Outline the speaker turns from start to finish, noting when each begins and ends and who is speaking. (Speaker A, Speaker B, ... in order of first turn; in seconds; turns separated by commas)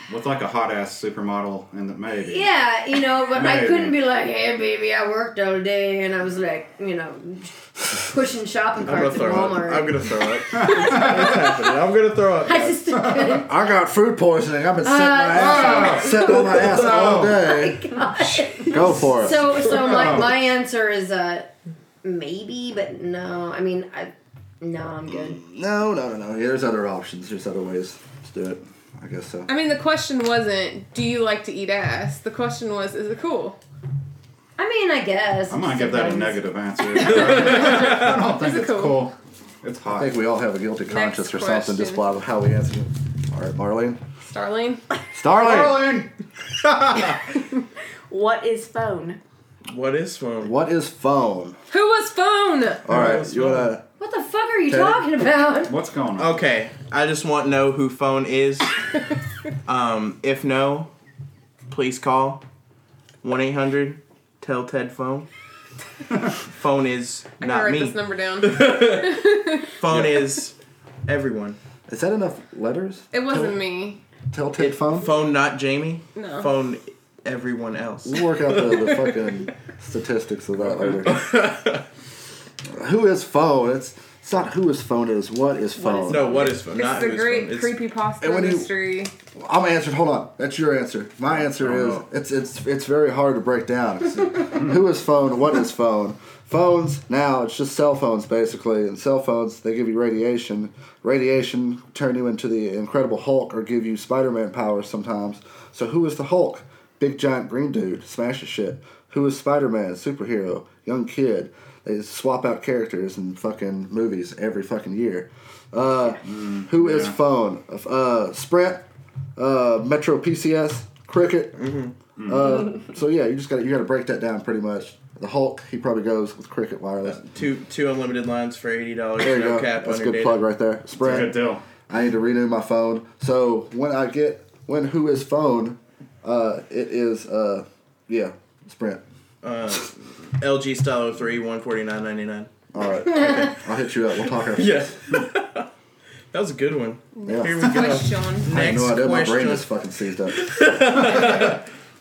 Speaker A: 0.1-2.5, Speaker B: 2.3-9.9, Speaker A: 3.3-4.0, Speaker C: 8.8-12.8, Speaker A: 10.5-11.6, Speaker B: 12.4-13.5, Speaker D: 13.3-17.8, Speaker B: 14.8-21.5, Speaker A: 15.3-17.4, Speaker C: 18.3-19.0, Speaker D: 18.7-19.7, Speaker A: 19.6-20.3, Speaker B: 22.0-25.4, Speaker D: 25.4-29.5, Speaker E: 29.5-33.6, Speaker B: 34.6-36.5, Speaker A: 35.5-40.2, Speaker C: 37.1-38.0, Speaker E: 37.1-39.1, Speaker D: 39.9-44.0, Speaker E: 40.9-42.0, Speaker E: 44.3-44.8, Speaker D: 45.1-46.0, Speaker A: 45.3-47.2, Speaker F: 48.1-49.2, Speaker C: 49.7-50.5, Speaker D: 50.4-51.6, Speaker E: 51.7-52.9, Speaker D: 52.9-53.8, Speaker C: 52.9-53.7, Speaker B: 54.0-55.7, Speaker D: 54.7-55.0, Speaker A: 55.6-56.3, Speaker C: 56.2-58.8, Speaker C: 59.7-60.9, Speaker C: 61.7-62.4, Speaker C: 63.2-65.3, Speaker C: 66.5-69.2, Speaker E: 67.4-69.7, Speaker C: 69.8-70.5, Speaker A: 69.9-70.2, Speaker C: 71.1-71.6, Speaker D: 71.9-73.6, Speaker E: 73.1-74.0, Speaker D: 74.3-75.1, Speaker C: 74.6-78.2, Speaker E: 76.2-76.5, Speaker D: 78.0-81.2, Speaker C: 81.0-81.8, Speaker D: 82.7-86.3, Speaker F: 85.7-86.7, Speaker C: 86.0-87.8, Speaker E: 86.7-89.1, Speaker D: 88.2-88.7, Speaker D: 89.3-118.8, Speaker A: 116.2-117.2, Speaker D: 119.4-121.6, Speaker C: 121.6-121.9, Speaker A: 122.2-122.7, Speaker D: 122.3-127.2, Speaker C: 127.0-130.4, Speaker D: 129.2-139.0, Speaker A: 131.0-131.6, Speaker C: 139.4-142.5, Speaker D: 142.7-144.9, Speaker C: 144.3-145.7, Speaker C: 146.3-149.7, Speaker E: 147.2-148.5, Speaker D: 147.3-147.9, Speaker D: 148.5-150.4, Speaker C: 150.3-151.7, Speaker A: 151.3-151.5